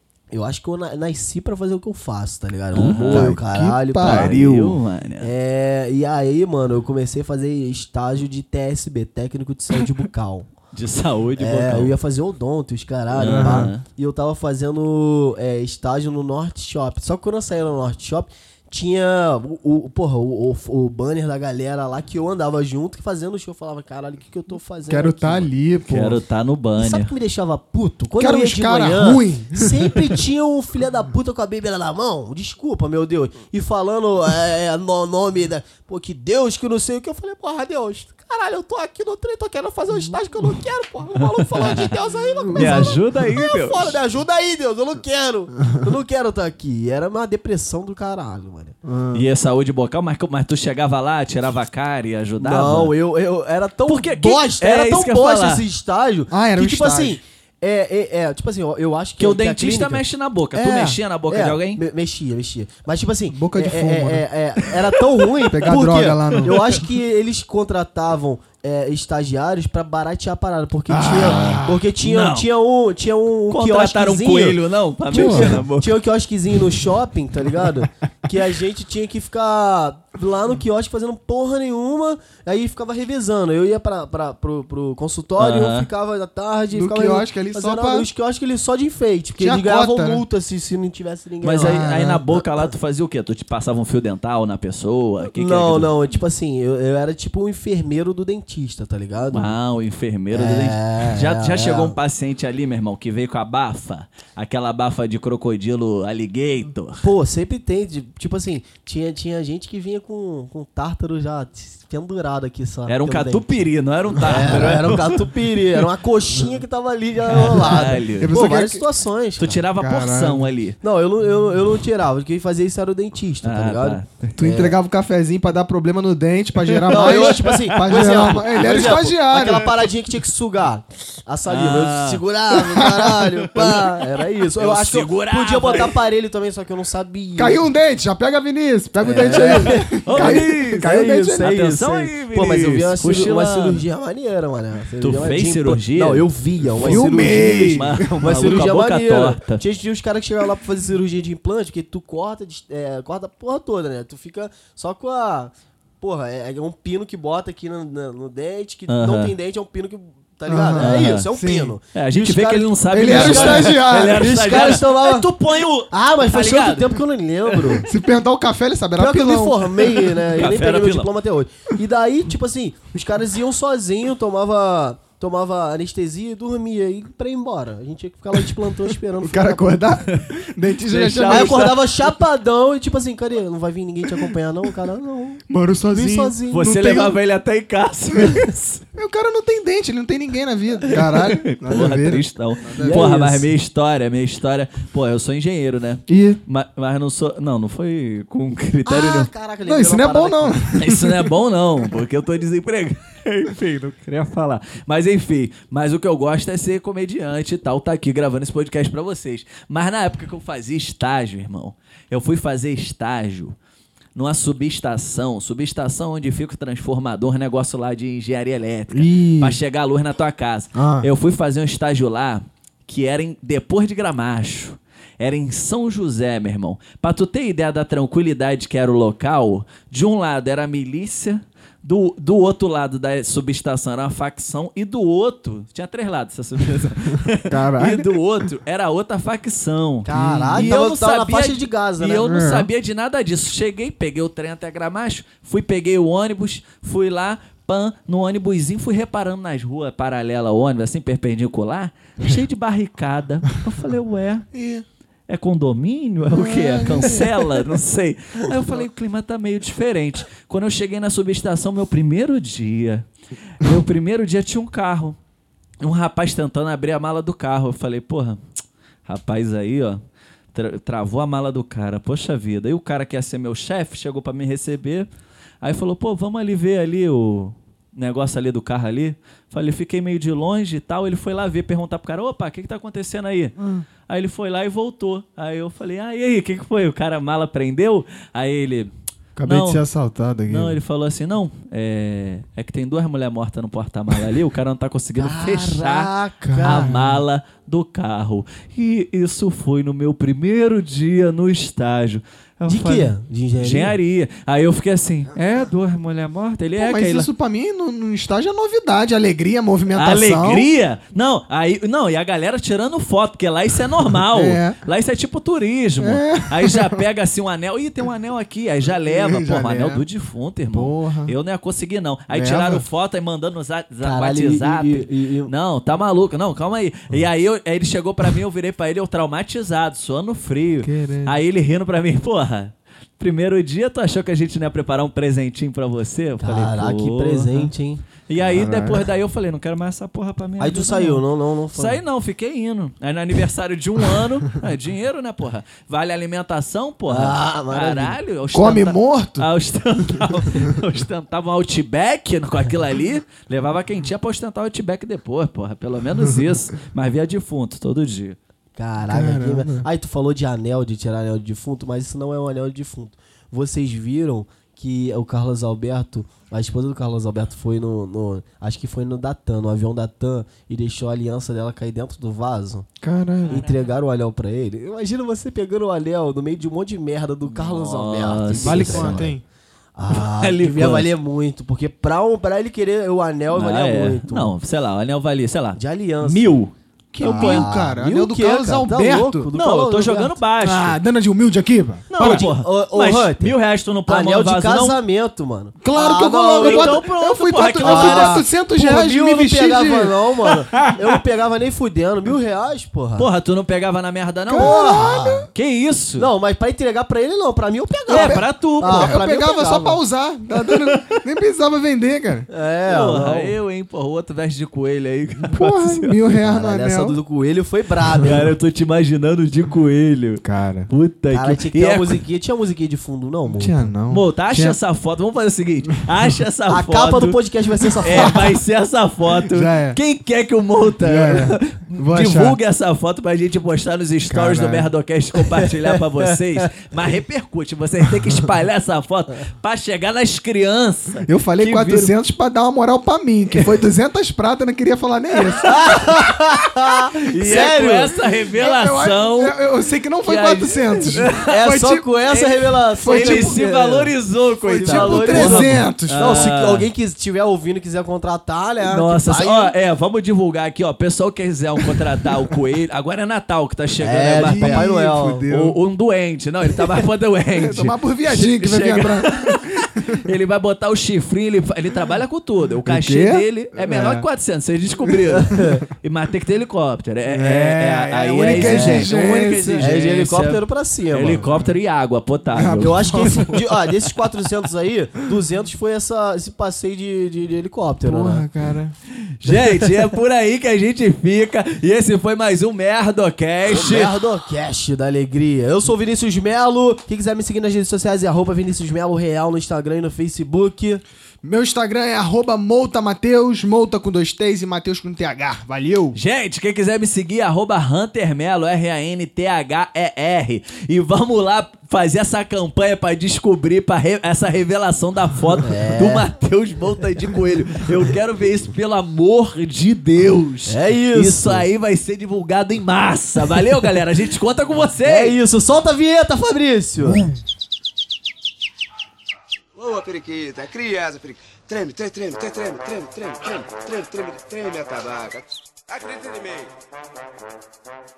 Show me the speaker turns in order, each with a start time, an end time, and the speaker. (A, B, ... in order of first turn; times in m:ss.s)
0:00.3-0:04.4 A
0:02.7-0:03.4 B
0:03.0-0:04.8 C
0:04.0-0:05.3 B
0:05.2-0:10.5 A
0:10.7-0:11.9 B
0:11.4-0:25.5 A
0:13.1-0:13.8 B
0:13.3-0:13.7 C
0:24.9-0:26.2 C
0:25.9-0:27.1 B
0:26.8-0:48.8 A
0:28.2-0:30.2 C
0:41.4-0:41.9 B
0:42.5-0:44.0 B
0:48.8-0:49.3 C
0:49.1-0:52.9 B
0:52.4-1:00.0 A
0:53.9-0:55.6 B
0:56.3-0:57.2 C
0:59.2-1:01.8 B
1:00.5-1:01.0 C
1:01.3-1:14.6 A
1:03.3-1:04.3 C
1:05.5-1:06.8 C
1:06.4-1:06.8 B
1:10.9-1:11.9 C
1:11.1-1:12.5 B
1:13.5-1:16.0 B
1:15.1-1:15.6 C
1:15.1-1:32.7 A
1:25.4-1:25.9 B
1:26.7-1:28.1 C
1:29.4-1:30.3 C
1:31.4-1:35.9 B
1:31.6-1:32.2 C
1:35.4-1:39.5 A
1:39.3-1:47.0 B
1:40.3-1:42.0 A
1:47.0-1:53.7 A
1:52.9-1:55.3 B
1:54.2-1:59.6 A
1:57.3-1:58.4 B
1:57.3-1:58.8 C
1:59.4-2:00.8 B
1:59.8-2:00.6 C
2:00.8-2:04.8 A
2:03.4-2:04.3 B
2:04.4-2:09.8 C
2:06.6-2:09.7 B
2:06.9-2:17.7 A
2:11.5-2:12.2 B
2:12.7-2:13.3 C
2:13.5-2:14.0 B
2:14.5-2:15.9 B
2:17.4-2:21.5 C
2:19.0-2:45.3 A
2:19.3-2:23.8 B
2:25.0-2:29.6 B
2:26.8-2:28.3 C
2:38.9-2:39.4 B
2:40.5-2:41.8 C
2:40.8-2:41.3 B
2:41.9-2:47.8 B
2:42.9-2:44.4 C
2:45.9-2:47.9 A
2:47.8-2:50.4 C
2:49.0-2:59.8 A
2:50.3-2:51.1 B
2:59.2-3:01.7 C
3:00.9-3:01.9 B
3:01.2-3:06.7 A
3:05.5-3:07.2 C
3:06.5-3:08.8 B
3:09.0-3:13.1 C
3:10.9-3:19.3 B
3:12.8-3:13.5 A
3:16.1-3:16.4 C
3:18.9-3:20.6 A
3:19.7-3:21.3 C
3:20.8-3:33.6 B
3:34.2-4:14.5 B
3:38.9-3:39.6 C
3:40.8-3:41.1 C
3:57.5-3:58.1 C
4:00.0-4:02.3 A
4:00.1-4:00.7 C
4:02.2-4:02.7 C
4:14.5-4:14.8 C
4:15.3-4:23.1 B
4:16.3-4:17.6 C
4:23.6-4:25.2 B
4:25.8-4:28.4 B
4:29.1-4:30.0 B
4:30.5-4:35.1 B
4:35.6-4:43.6 B
4:43.6-4:43.8 C
4:44.1-4:48.9 B
4:49.4-4:50.8 C
4:49.5-4:49.8 B
4:50.5-5:07.3 B
4:55.2-4:56.9 A
4:56.4-4:57.2 C
5:02.7-5:04.0 A
5:06.8-5:10.7 C
5:09.9-5:37.7 B
5:14.2-5:14.8 C
5:16.0-5:17.0 C
5:19.0-5:20.0 C
5:20.7-5:21.4 C
5:22.3-5:22.9 C
5:24.0-5:25.5 A
5:30.8-5:31.4 C
5:36.4-5:38.0 A
5:38.3-5:41.2 B
5:38.4-5:39.0 C
5:40.6-5:42.0 A
5:41.8-5:58.4 B
5:47.1-5:48.2 A
5:48.5-5:49.5 C
5:58.8-6:12.9 A
5:59.1-5:59.9 C
6:13.0-6:13.7 C
6:13.5-6:13.8 B
6:13.5-6:19.4 A
6:17.4-6:19.3 B
6:18.6-6:19.4 C
6:20.0-6:24.6 A
6:20.1-6:21.1 B
6:23.5-6:27.7 B
6:25.8-6:26.5 A
6:27.1-6:29.5 C
6:27.2-6:30.4 A
6:29.5-6:31.0 B
6:30.6-6:32.5 C
6:32.1-6:35.0 B
6:32.2-6:33.6 A
6:34.1-6:37.1 A
6:35.8-6:40.2 C
6:36.6-6:38.4 B
6:37.8-6:43.3 A
6:40.5-6:41.2 B
6:43.2-6:45.0 B
6:44.5-6:45.5 C
6:44.5-6:45.5 A
6:45.5-6:46.3 B
6:46.2-6:50.0 A
6:48.1-6:49.2 B
6:48.1-6:52.5 C
6:50.7-6:51.1 B
6:52.5-6:53.6 A
6:52.9-6:56.1 B
6:55.4-6:57.2 C
6:56.4-6:58.5 A
6:58.1-7:02.2 B
7:00.4-7:00.9 C
7:01.3-7:03.9 A
7:03.5-7:04.8 C
7:04.1-7:07.4 B
7:06.7-7:08.5 A
7:08.0-7:22.1 B
7:08.1-7:08.6 C
7:09.4-7:10.0 C
7:11.0-7:12.6 C
7:14.3-7:14.9 C
7:15.4-7:16.3 A
7:21.3-7:26.2 C
7:25.6-7:28.1 A
7:27.1-7:29.6 B
7:28.5-7:32.1 C
7:30.2-7:31.5 B
7:31.3-7:39.8 A
7:32.3-7:36.9 B
7:33.0-7:33.6 C
7:34.8-7:36.5 C
7:38.8-8:03.4 B
7:44.0-7:45.5 A
7:44.4-7:45.8 C
7:47.6-7:50.3 C
7:52.9-7:54.3 C
7:55.0-7:55.8 C
7:55.3-7:55.8 A
7:57.3-7:59.9 C
7:58.6-7:59.2 A
7:59.8-8:01.5 A
8:01.4-8:01.7 C
8:02.5-8:03.7 C
8:02.6-8:08.5 A
8:08.0-8:08.9 C
8:09.2-8:14.2 B
8:13.7-8:21.0 A
8:21.4-8:26.2 C
8:26.1-8:45.4 B
8:35.6-8:36.3 A
8:40.7-8:41.7 A
8:45.0-8:47.3 A
8:49.8-8:56.7 D